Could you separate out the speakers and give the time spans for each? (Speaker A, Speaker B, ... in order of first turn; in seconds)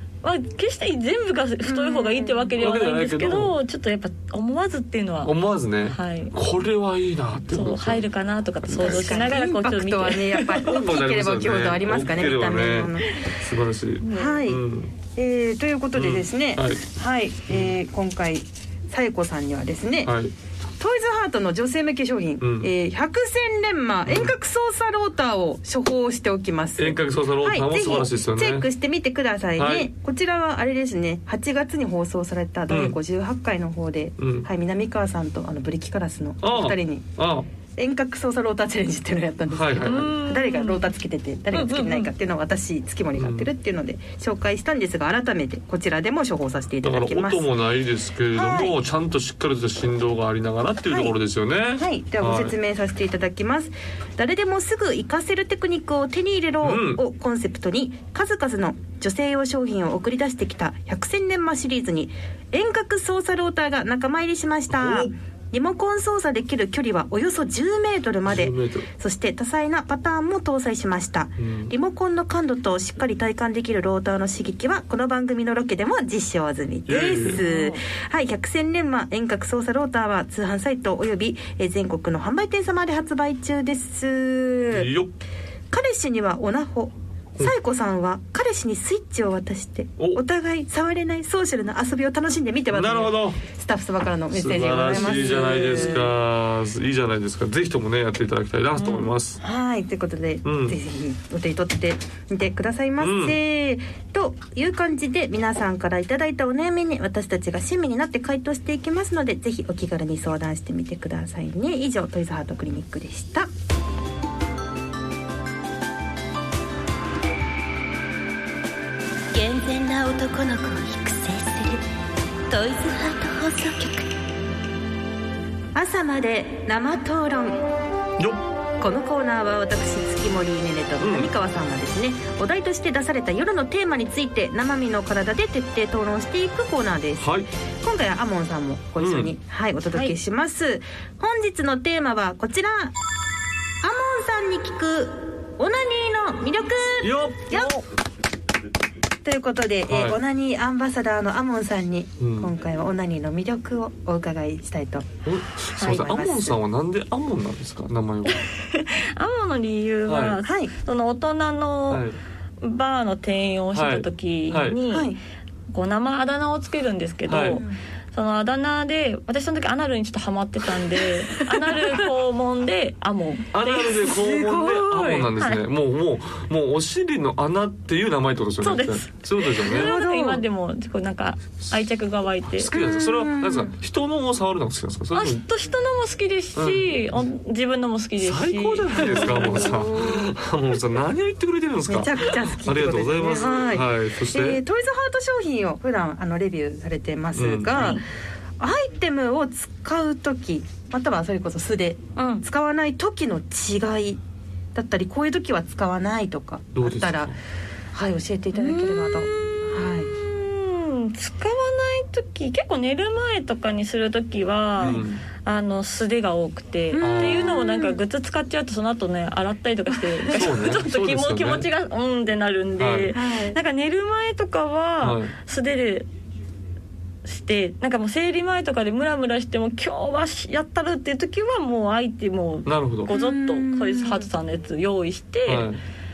Speaker A: 0.2-5.3, 5.9-6.3, 7.5-10.7, 14.0-14.4, 39.8-40.9, 41.5-42.1, 77.2-77.8, 95.0-95.4, 98.8-99.1, 158.3-162.0, 162.6-165.2, 165.7-174.1, 175.4-175.6, 178.6-182.7, 185.1-189.8, 197.8-198.0, 202.2-202.4, 208.5-226.1, 227.2-235.7
Speaker B: 1.6-2.5, 8.8-13.2, 14.1-20.1, 20.8-37.1, 37.8-47.5, 48.3-48.8, 50.9-51.1, 51.8-84.9, 85.7-96.1, 99.4-113.5, 125.8-127.6, 128.8-142.9, 143.8-147.8, 149.2-155.1, 155.8-156.6, 160.4-160.7, 164.9-165.2, 167.5-167.8, 171.3-172.1, 173.7-175.3, 179.6-180.4, 182.7-183.7, 188.9-190.3, 191.9-198.0, 198.6-204.2, 204.8-207.3, 207.9-210.1, 216.9-218.0, 219.9-220.5, 223.1-223.6, 233.1-234.3
Speaker C: 2.6-3.5, 5.2-8.1, 8.7-9.3, 10.6-14.9, 15.9-16.8, 17.5-17.7, 20.1-20.3, 22.4-22.7, 24.1-24.3, 26.8-28.7, 29.6-29.9, 32.7-33.0, 34.2-34.5, 36.4-37.5, 39.5-40.1, 43.2-43.5, 46.8-52.5, 56.6-57.0, 64.7-65.1, 68.2-68.9, 71.4-71.7, 76.9-77.4, 84.7-85.1, 92.7-93.4, 94.3-99.4, 100.5-100.8, 103.0-103.4, 131.0-131.3, 137.2-137.5, 139.0-139.3, 147.0-147.7, 149.9-150.2, 152.2-152.5, 155.2-158.4, 160.1-160.4, 161.9-162.2, 163.7-164.8, 167.3-167.6, 173.5-179.9, 182.5-185.4, 186.6-187.2, 188.2-194.6, 197.3-198.0, 206.8-207.3, 214.8-215.2, 217.0-217.6, 220.3-221.7, 222.8-223.1, 225.0-225.3, 232.7-233.1, 235.5-235.8
Speaker D: 119.3-121.8, 122.5-124.1